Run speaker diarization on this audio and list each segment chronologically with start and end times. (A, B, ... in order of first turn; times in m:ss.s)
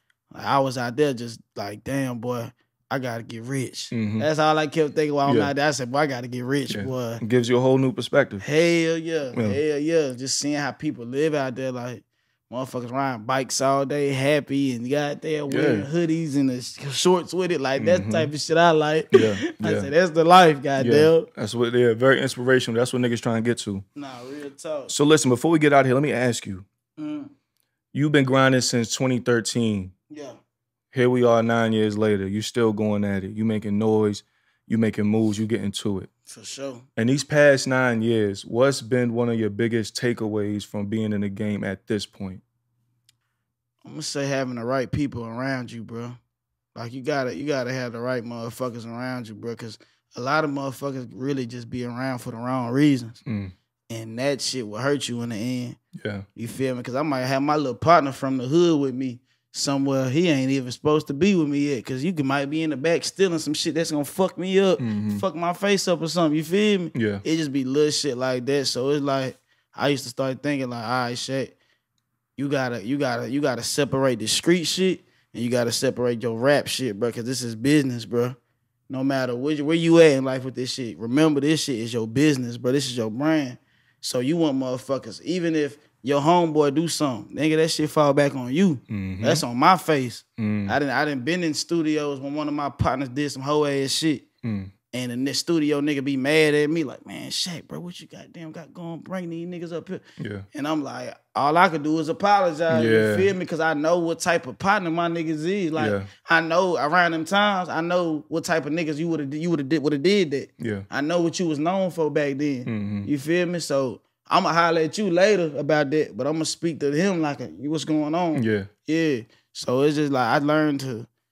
0:00.3-0:07.2 A
0:03.9-0:04.3 B
0:05.3-0:05.5 B
0:06.7-0:08.4 B
0:08.4-0:21.3 A
0:09.3-0:09.6 B
0:15.5-0:15.9 B
0:17.8-0:18.3 B
0:19.1-0:19.9 B
0:20.8-0:23.8 B
0:24.0-0:24.9 A
0:24.9-0:26.7 B
0:27.0-0:27.3 A
0:27.9-0:29.9 B
0:30.1-0:30.4 A
0:30.9-0:36.1 B
0:36.3-0:36.8 A
0:37.0-0:42.4 B
0:43.8-0:46.2 A
0:46.8-0:53.2 A
0:53.3-0:53.5 B
0:53.9-0:55.8 A
0:56.0-0:56.2 B
0:56.4-1:11.6 A
1:04.8-1:05.2 B
1:06.9-1:07.2 B
1:12.4-1:18.4 A
1:18.9-1:34.2 A
1:28.9-1:29.4 B
1:30.4-1:30.8 B
1:34.4-1:34.7 B
1:34.9-2:01.1 A
1:40.2-1:40.5 B
1:42.7-1:43.3 B
1:45.8-1:46.1 B
1:50.6-1:50.8 B
1:52.7-1:53.1 B
1:58.3-1:58.7 B